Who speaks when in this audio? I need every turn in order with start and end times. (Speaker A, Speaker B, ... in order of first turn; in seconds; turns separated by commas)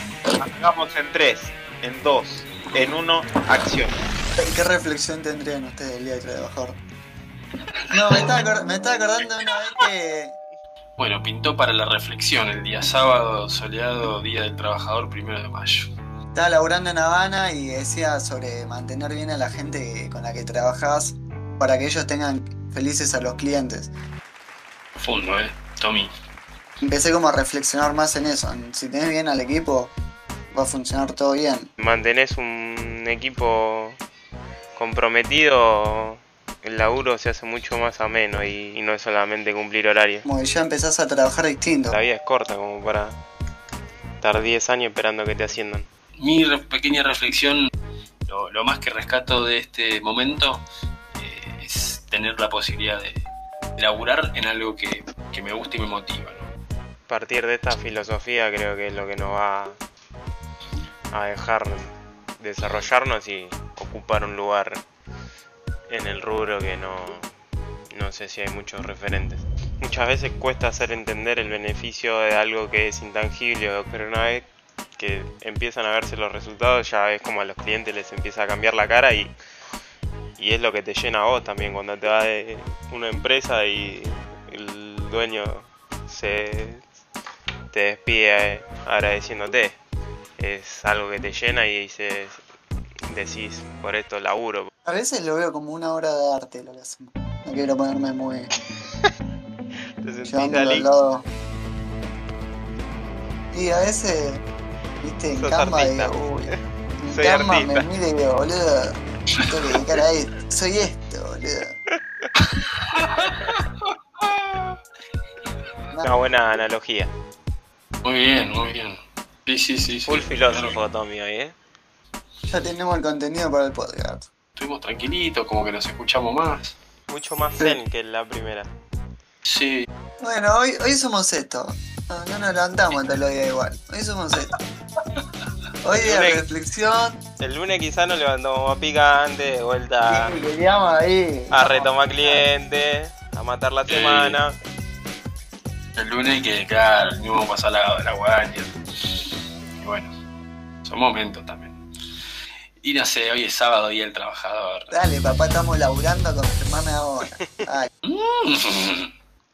Speaker A: 0.4-4.0, Speaker B: 4.4-6.8, Speaker B: 7.9-10.3, Speaker C: 11.0-15.9, Speaker B: 16.3-23.9, Speaker C: 25.0-26.1, Speaker B: 26.8-29.9, Speaker B: 30.5-31.7, Speaker D: 31.8-34.0, Speaker D: 34.8-40.3, Speaker B: 40.3-42.0, Speaker D: 41.9-43.2, Speaker D: 44.2-45.9, Speaker C: 46.2-47.7, Speaker C: 48.3-50.6, Speaker C: 51.2-53.2, Speaker C: 53.8-56.5, Speaker D: 57.1-59.8, Speaker D: 61.1-64.8, Speaker D: 65.9-67.3, Speaker D: 67.9-79.3, Speaker D: 80.4-86.8, Speaker D: 87.7-89.8, Speaker D: 90.4-92.4, Speaker D: 93.1-94.7, Speaker B: 94.8-98.5, Speaker D: 100.0-100.9, Speaker B: 100.3-101.2, Speaker B: 103.5-104.4, Speaker B: 105.0-111.8, Speaker D: 105.3-107.9, Speaker C: 112.9-113.5, Speaker C: 114.2-114.7, Speaker D: 116.0-117.1, Speaker C: 118.0-120.8, Speaker D: 120.1-121.6, Speaker B: 122.5-124.3, Speaker C: 124.6-126.8, Speaker D: 127.1-128.7, Speaker C: 129.4-129.9, Speaker B: 130.2-134.6, Speaker B: 135.8-137.2, Speaker D: 135.9-136.5, Speaker D: 137.4-140.3, Speaker B: 140.1-142.4, Speaker D: 141.5-144.6, Speaker C: 143.9-144.4, Speaker C: 146.0-148.7, Speaker C: 149.8-150.1, Speaker C: 150.8-151.8, Speaker C: 152.8-155.0, Speaker B: 154.9-157.9, Speaker C: 158.0-159.1